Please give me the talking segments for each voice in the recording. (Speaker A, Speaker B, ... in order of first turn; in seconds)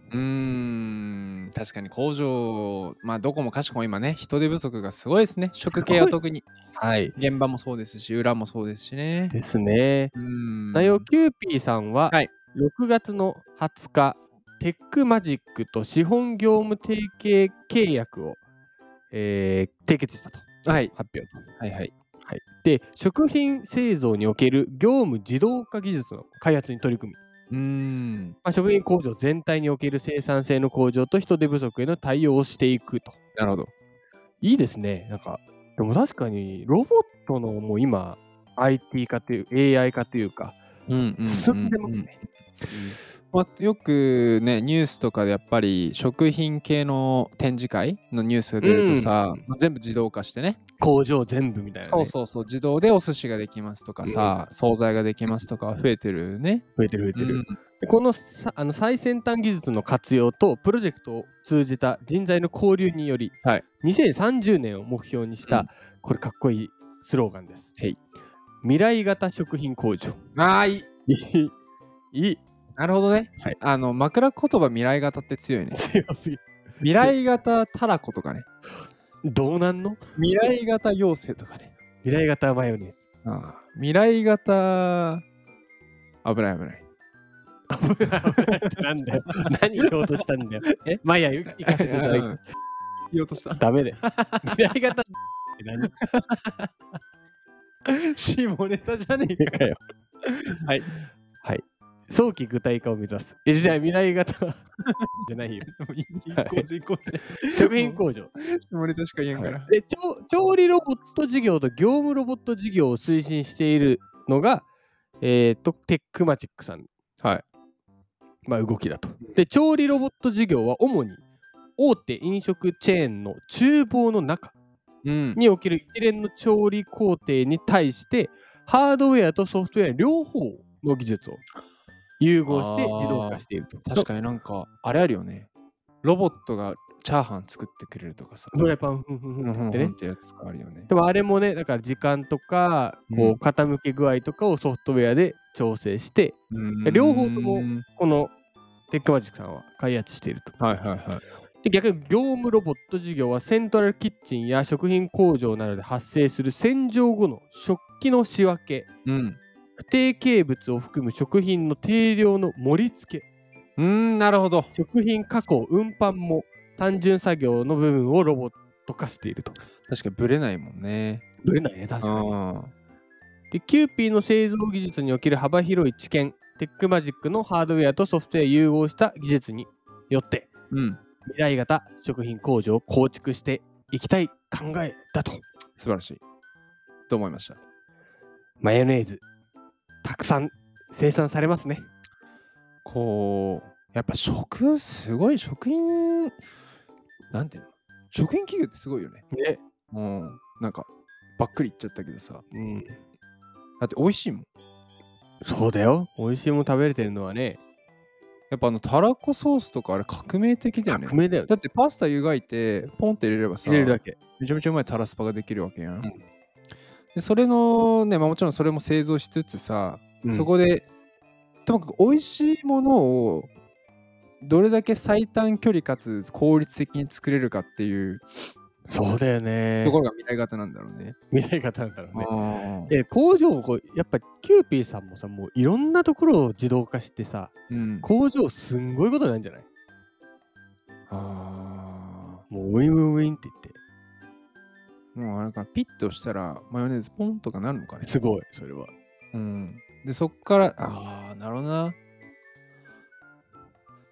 Speaker A: 0.1-6.5, 7.2-9.3, 10.2-11.1, 20.7-21.9, 27.5-28.4, 33.4-33.7, 40.9-42.2, 43.3-50.6, 51.9-57.6, 70.3-70.9, 72.8-75.8, 76.8-78.5, 80.2-81.7, 83.2-85.2, 86.2-86.8, 88.3-88.8, 91.6-92.4, 93.1-94.7, 95.8-96.7, 97.9-99.6, 100.3-100.9, 104.8-109.7, 125.0-125.4, 132.5-135.5, 136.0-138.6, 139.4-140.9, 143.1-143.4, 146.5-147.8, 150.6-151.2, 159.1-159.4, 163.8-164.7, 169.9-171.2, 172.0-172.7, 180.7-181.0, 185.8-186.2, 187.1-187.6, 192.8-196.3, 197.3-199.2, 199.9-202.4, 203.8-204.5, 208.5-216.1, 217.1-220.9, 221.7-223.5, 224.4-228.3, 229.8-231.2, 232.1-232.9, 237.7-238.1, 241.1-242.4, 245.2-248.1, 249.3-252.0
Speaker B: 5.7-6.2, 6.8-7.1, 9.3-10.1, 10.7-18.4, 19.1-21.4, 22.2-27.2, 28.4-33.2, 34.4-40.6, 41.2-42.1, 42.7-43.0, 48.6-49.4, 50.8-52.1, 54.0-54.4, 56.8-67.7, 68.6-70.2, 71.1-71.5, 72.1-72.4, 75.7-76.4, 79.2-80.0, 82.0-83.0, 87.7-92.4, 93.6-95.9, 99.4-99.8, 101.4-104.7, 105.2-105.7, 106.3-106.7, 107.3-108.3, 109.3-114.7, 115.2-116.9, 118.5-121.2, 121.8-124.5, 125.3-131.4, 132.2-134.1, 138.5-139.9, 140.9-148.3, 148.9-150.5, 151.6-158.9, 159.8-163.3, 164.7-169.6, 171.4-172.3, 173.5-180.5, 181.3-185.4, 188.6-189.2, 190.0-191.9, 199.3-199.6, 202.5-203.0, 205.4-207.6, 210.9-211.5, 213.6-214.2, 220.2-220.5, 228.9-230.0, 231.3-232.3, 232.9-239.7, 242.5-243.8, 248.0-248.9